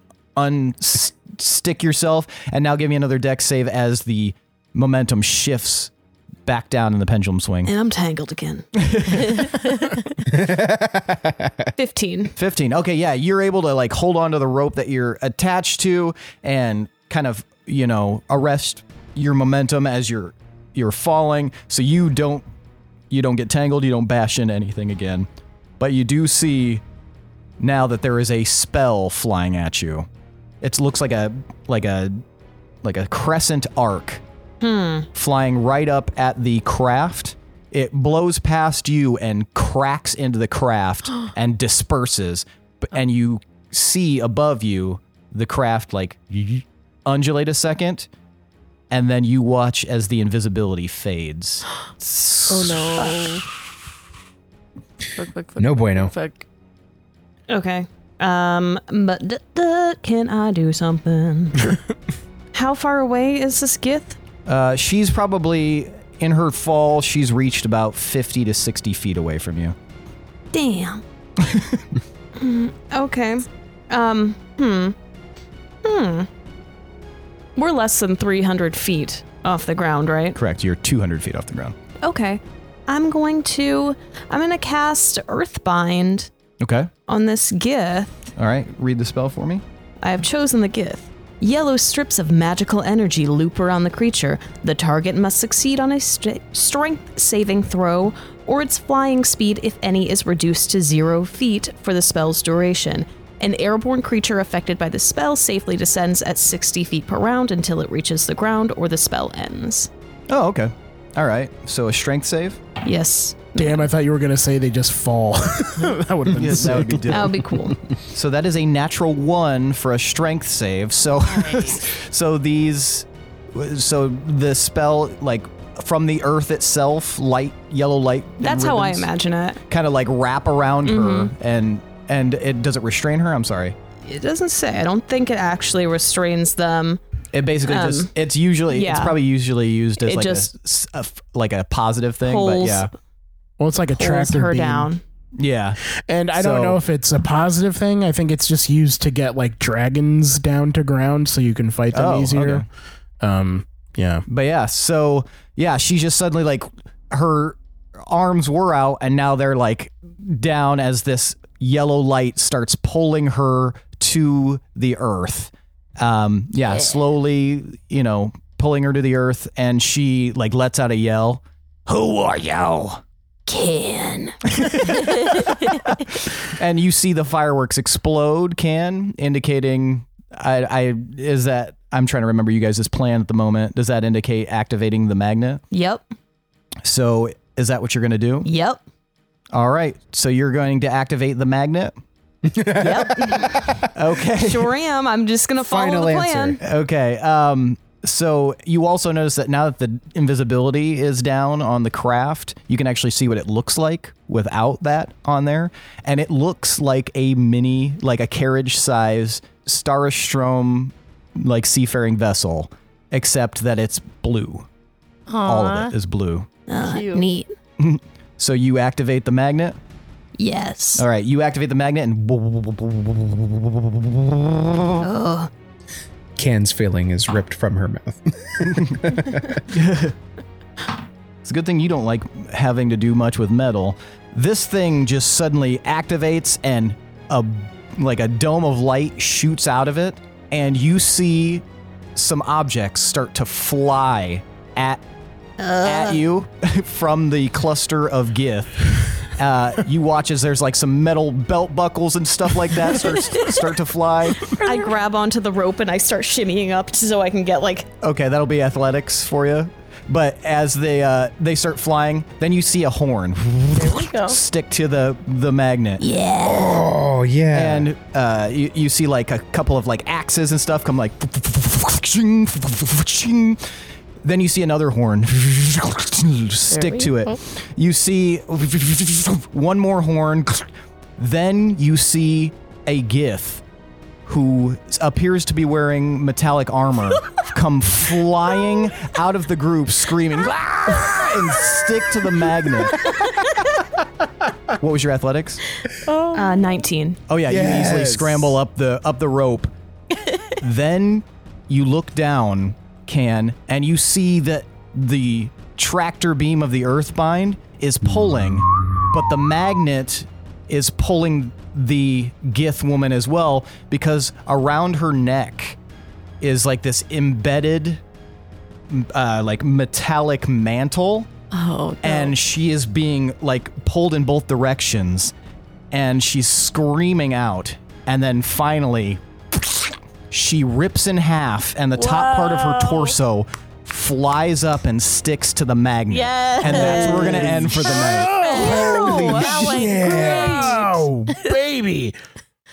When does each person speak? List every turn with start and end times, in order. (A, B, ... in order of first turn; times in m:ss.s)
0:00.4-0:05.9 A
0:06.5-0:07.7 A
0:07.7-0:09.5 B
0:08.8-0:09.8 A
0:10.3-0:11.7 C
0:11.8-0:12.3 B
0:12.4-0:22.5 A
0:23.1-0:25.3 A
0:25.8-0:26.8 A
0:27.6-0:30.1 A
0:30.6-0:32.2 A
0:32.8-0:34.2 A
0:34.6-0:35.1 B
0:35.2-0:48.1 A
0:48.9-0:53.1 A
0:52.5-0:53.4 D
0:55.2-0:56.5 D
0:55.6-0:56.1 C
0:57.5-1:01.7 B
1:02.5-1:04.2 B
1:04.5-1:09.8 A
1:10.5-1:11.0 B
1:11.4-1:11.8 A
1:12.4-1:15.0 B
1:15.8-1:16.3 B
1:17.6-1:20.4 B
1:20.4-1:21.8 A
1:22.0-1:26.3 B
1:26.6-1:26.9 A
1:27.1-1:28.2 B
1:28.4-1:29.6 A
1:30.0-1:49.9 B
1:50.3-1:52.6 A
1:52.8-1:53.9 B
1:53.6-1:57.7 E
1:56.3-1:57.4 A
1:57.1-1:57.8 B
1:58.1-2:09.1 A
2:08.4-2:09.6 B
2:09.7-2:13.8 A
2:10.9-2:11.3 B
2:14.0-2:17.0 B
2:17.3-2:22.9 A
2:17.7-2:18.1 B
2:18.7-2:19.2 B
2:20.0-2:20.5 B
2:22.2-2:22.9 B
2:23.6-2:24.9 E
2:23.9-2:25.0 B
2:25.4-2:25.8 A
2:26.1-2:32.6 E
2:26.4-2:26.8 A
2:31.9-2:32.6 A
2:33.2-2:34.2 E
2:34.3-2:53.0 A
2:53.5-2:54.4 F
2:54.6-2:55.5 A
2:56.4-3:05.6 A
3:05.7-3:06.0 B
3:06.8-3:08.5 A
3:08.4-3:08.8 B
3:09.5-3:12.0 A
3:12.5-3:13.9 C
3:12.8-3:13.7 B
3:13.9-3:14.8 A
3:14.3-3:16.6 B
3:15.6-3:16.6 C
3:16.6-3:34.7 A
3:35.3-3:35.9 D
3:35.4-3:36.5 A
3:36.7-3:37.5 F
3:36.8-3:37.2 D
3:37.8-3:39.8 A
3:40.4-3:41.0 F
3:41.0-3:45.0 A
3:45.0-3:45.5 F
3:46.4-3:49.6 C
3:49.7-3:50.2 A
3:51.4-4:01.6 A
4:02.2-4:05.0 A
4:05.7-4:06.2 F
4:05.8-4:14.6 A
4:14.4-4:17.9 B
4:14.5-4:14.8 D
4:18.0-4:26.0 A
4:23.8-4:24.4 D
4:26.0-4:26.8 F
4:26.4-4:27.9 C
4:27.5-4:33.6 A
4:34.2-4:43.6 A
4:36.7-4:37.4 D
4:44.3-4:53.1 A
4:54.8-4:55.6 A
4:56.0-4:56.8 D
4:56.3-4:57.2 B
4:57.3-4:59.7 A
4:57.5-4:58.5 C
5:00.6-5:15.8 A
5:16.4-5:18.0 A
5:18.9-5:21.3 A
5:21.5-5:22.4 D
5:22.0-5:25.3 A
5:25.9-5:38.4 A
5:32.0-5:33.2 D
5:36.1-5:37.6 D
5:36.6-5:42.2 E
5:38.4-5:41.5 D
5:38.5-5:40.8 B